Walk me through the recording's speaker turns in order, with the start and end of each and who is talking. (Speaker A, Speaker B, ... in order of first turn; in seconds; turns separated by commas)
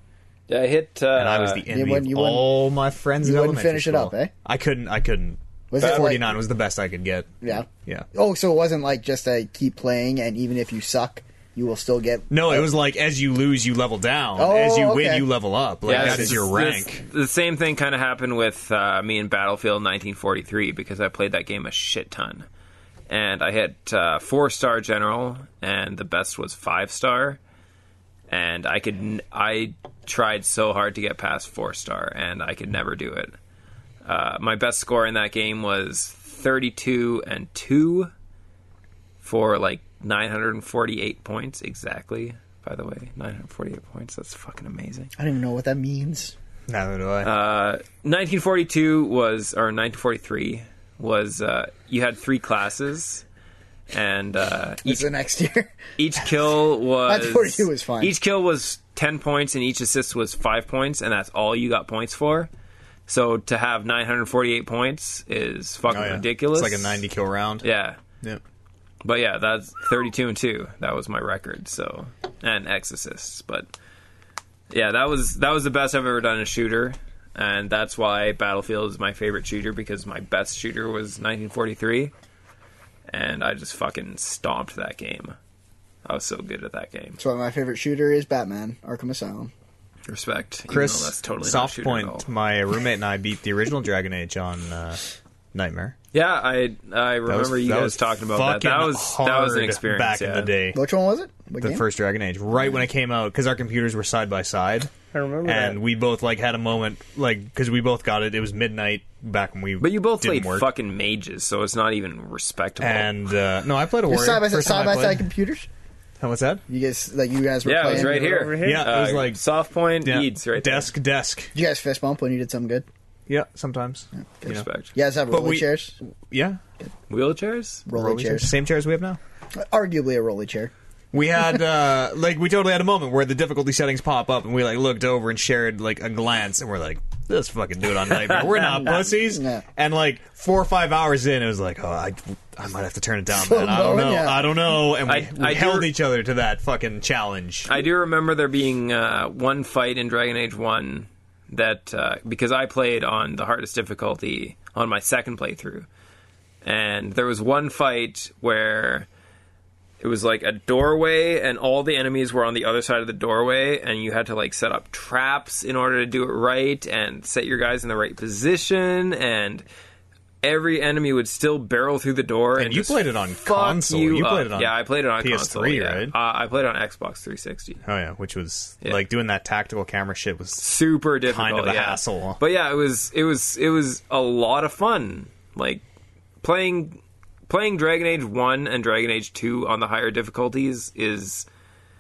Speaker A: 0.5-1.7, Speaker B: 1.1-8.1, Speaker C: 1.7-2.5, Speaker C: 3.2-4.3, Speaker C: 5.7-6.4, Speaker A: 5.8-6.2, Speaker C: 7.4-12.7, Speaker B: 12.3-17.0, Speaker C: 14.4-15.3, Speaker C: 15.9-16.4, Speaker A: 15.9-22.5, Speaker A: 23.1-27.4, Speaker A: 28.3-33.4, Speaker A: 34.0-38.1, Speaker A: 39.2-45.1, Speaker C: 45.2-46.3, Speaker B: 46.7-47.3, Speaker A: 47.2-53.2, Speaker A: 53.9-55.1, Speaker C: 54.9-55.7, Speaker A: 56.0-62.5, Speaker C: 57.1-58.1, Speaker A: 63.1-67.0, Speaker B: 65.9-67.7, Speaker A: 67.6-68.0, Speaker A: 69.0-73.7, Speaker A: 74.7-82.1, Speaker A: 83.1-85.4, Speaker A: 86.0-87.2, Speaker C: 87.2-89.5, Speaker A: 90.1-92.2, Speaker B: 90.7-96.0, Speaker A: 96.1-100.5, Speaker B: 97.3-100.8, Speaker C: 100.7-101.8, Speaker B: 101.6-104.9, Speaker D: 105.1-105.8, Speaker B: 105.5-110.7, Speaker A: 109.8-113.1, Speaker B: 112.8-115.3, Speaker C: 114.1-115.7, Speaker B: 116.2-116.6, Speaker C: 116.7-118.4, Speaker A: 117.6-120.9, Speaker D: 117.8-119.0, Speaker B: 118.6-119.4, Speaker B: 120.0-121.5, Speaker C: 121.5-122.9, Speaker B: 123.3-124.7, Speaker C: 124.4-126.0, Speaker A: 124.5-124.9, Speaker B: 125.3-125.8, Speaker B: 126.3-126.6, Speaker A: 127.1-127.8, Speaker C: 127.9-128.5, Speaker B: 127.9-129.2, Speaker C: 129.6-130.7, Speaker B: 131.1-147.8, Speaker C: 138.5-139.6, Speaker C: 143.3-144.5, Speaker A: 145.0-145.9, Speaker A: 147.7-155.9, Speaker A: 156.6-159.1, Speaker A: 160.0-169.7, Speaker A: 170.4-177.8, Speaker B: 172.6-176.1, Speaker B: 177.8-180.7, Speaker A: 180.6-185.8, Speaker B: 181.2-182.4, Speaker A: 186.4-191.5